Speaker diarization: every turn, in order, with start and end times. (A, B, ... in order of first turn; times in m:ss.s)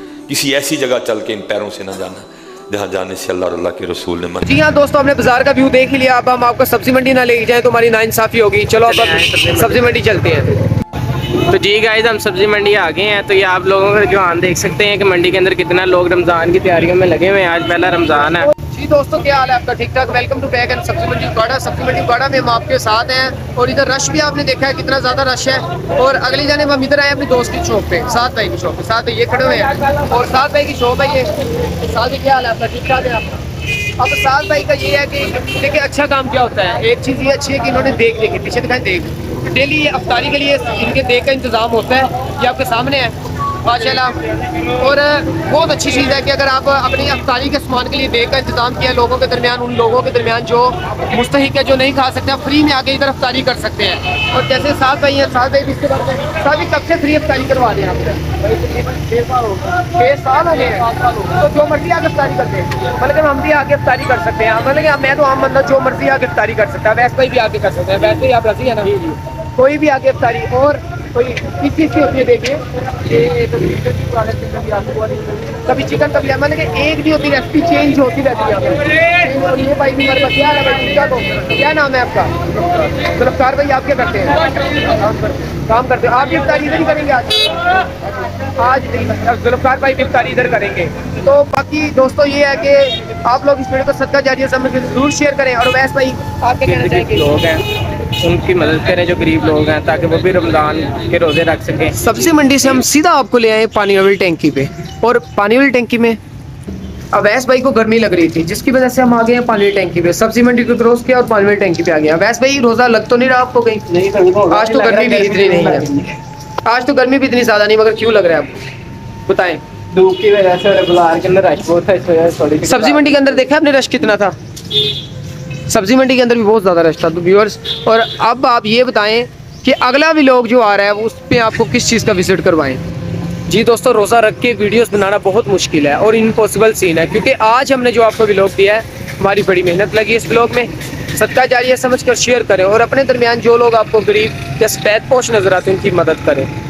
0:00.3-0:04.5 A
0:04.4-0:10.6 B
0:08.8-0:10.0 C
0:11.4-0:18.5 C
0:18.5-0:33.4 B
0:34.0-0:44.2 B
0:44.8-1:37.4 B
1:36.6-1:42.0 C
1:42.0-1:46.2 B
1:47.1-1:53.8 B
1:53.9-1:56.1 C
1:54.5-1:55.9 B
1:56.6-1:58.6 B
1:59.3-1:59.6 B
1:59.9-2:03.4 C
2:02.6-2:04.3 B
2:05.7-2:12.8 B
2:13.5-2:26.5 B